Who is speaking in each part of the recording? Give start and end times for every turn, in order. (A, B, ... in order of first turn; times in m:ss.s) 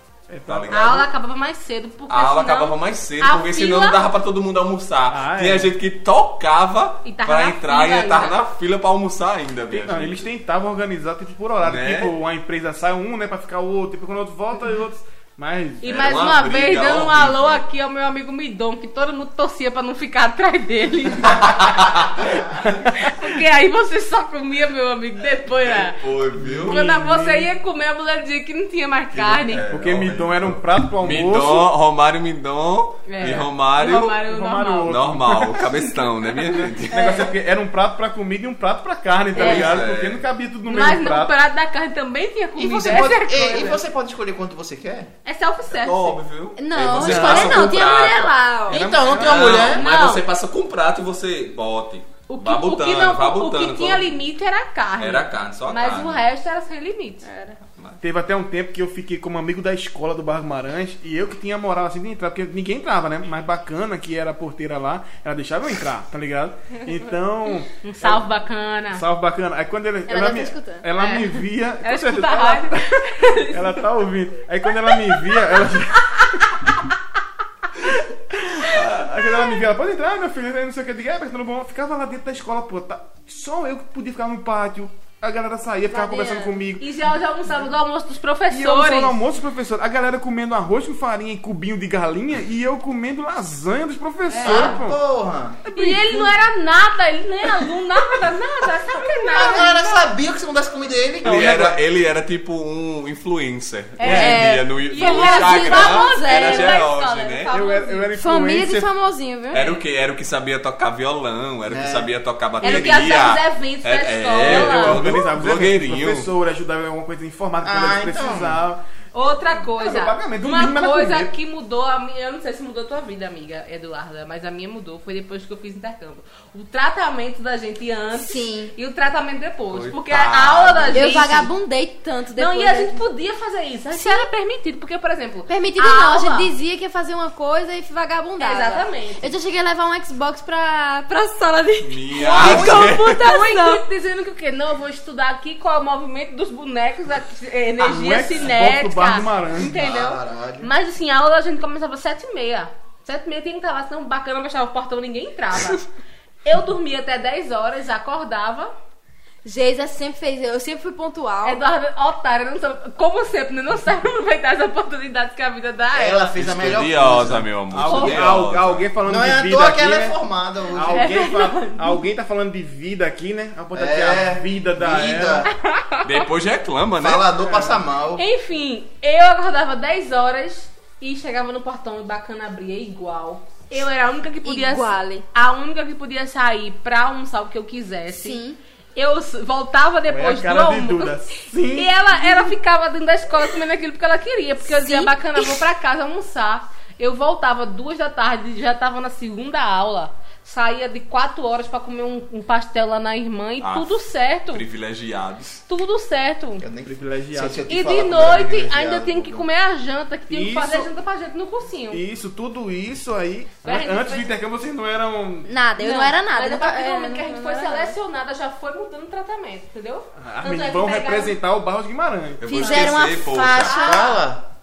0:00.3-0:01.0 A
0:00.4-0:01.1 B
0:00.7-0:04.0 C
0:02.1-0:10.3 B
0:05.1-0:05.7 A
0:07.0-0:08.4 C
0:09.7-0:15.8 A
0:11.6-0:12.1 B
0:15.8-0:22.1 C
0:15.8-0:17.6 B
0:21.4-0:22.2 B
0:22.2-0:23.2 A
0:22.9-0:26.0 C
0:25.4-0:26.8 B
0:26.3-0:27.5 A
0:26.7-0:29.6 C
0:29.1-0:34.2 B
0:29.6-0:31.7 A
0:33.1-0:35.0 C
0:34.1-0:35.6 A
0:34.8-0:37.2 B
0:36.2-0:36.6 C
0:36.9-0:41.3 A
0:36.9-0:37.2 D
0:39.3-0:40.2 B
0:39.4-0:39.8 C
0:40.7-0:43.8 C
0:42.6-0:45.1 E
0:45.2-0:46.2 C
0:45.7-0:48.3 B
0:46.6-0:48.9 D
0:46.9-0:47.8 A
0:48.7-0:49.7 A
0:48.7-0:49.8 E
0:49.0-0:54.2 B
0:49.5-0:50.2 C
0:52.3-0:57.2 C
0:55.0-0:56.2 B
0:57.2-0:57.6 D
0:58.0-1:08.2 A
1:07.8-1:09.0 C
1:08.9-1:16.7 A
1:10.1-1:10.8 D
1:10.9-1:13.9 C
1:14.9-1:15.4 C
1:17.8-1:26.9 A
1:25.9-1:26.6 D
1:26.8-1:29.2 C
1:28.5-1:35.0 A
1:34.3-1:34.8 C
1:34.4-1:35.6 E
1:35.6-1:36.4 A
1:35.7-1:40.0 C
1:39.3-1:41.8 E
1:41.2-1:47.5 B
1:41.3-1:41.5 A
1:44.0-1:48.1 C
1:44.0-1:46.8 D
1:44.0-1:44.4 A
1:47.5-1:48.9 A
1:48.1-1:49.7 D
1:49.5-1:56.3 B
1:51.6-1:52.1 E
1:52.6-1:55.2 C
1:54.4-1:58.8 A
1:57.6-1:58.6 E
1:59.1-2:11.5 C
1:59.6-2:01.3 A
2:08.1-2:08.7 D
2:09.7-2:11.3 B
2:10.9-2:13.0 D
2:12.3-2:16.5 C
2:13.9-2:14.3 D
2:15.5-2:23.8 D
2:18.4-2:19.3 C
2:21.8-2:23.2 B
2:22.2-2:35.9 C
2:27.8-2:29.8 A
2:29.6-2:30.7 E
2:36.4-2:38.7 C
2:39.4-2:41.6 D
2:41.4-2:46.4 C
2:45.9-2:47.5 E
2:46.4-2:48.9 B
2:47.7-2:50.2 A
2:47.8-2:48.2 C
2:49.0-2:51.1 E
2:50.7-2:55.5 A
2:50.9-2:52.0 C
2:53.7-2:55.5 E
2:55.5-2:56.2 C
2:56.0-2:57.2 B
2:57.0-2:58.2 E
2:57.4-2:57.8 A
2:58.2-3:08.4 C
3:04.4-3:05.2 D
3:08.1-3:08.6 D
3:09.0-3:24.6 C
3:10.1-3:12.0 A
3:14.6-3:15.6 D
3:23.6-3:25.6 B
3:25.7-3:26.6 C
3:26.6-3:29.4 E
3:26.8-3:27.7 A
3:27.7-3:32.0 C
3:30.3-3:30.9 A
3:31.9-3:35.5 A
3:33.6-3:34.3 C
3:35.4-3:38.0 D
3:35.8-3:41.4 C
3:40.2-3:42.4 A
3:42.4-3:43.8 B
3:42.5-3:44.2 D
3:42.6-3:42.9 C
3:43.6-3:44.4 E
3:43.7-3:44.0 C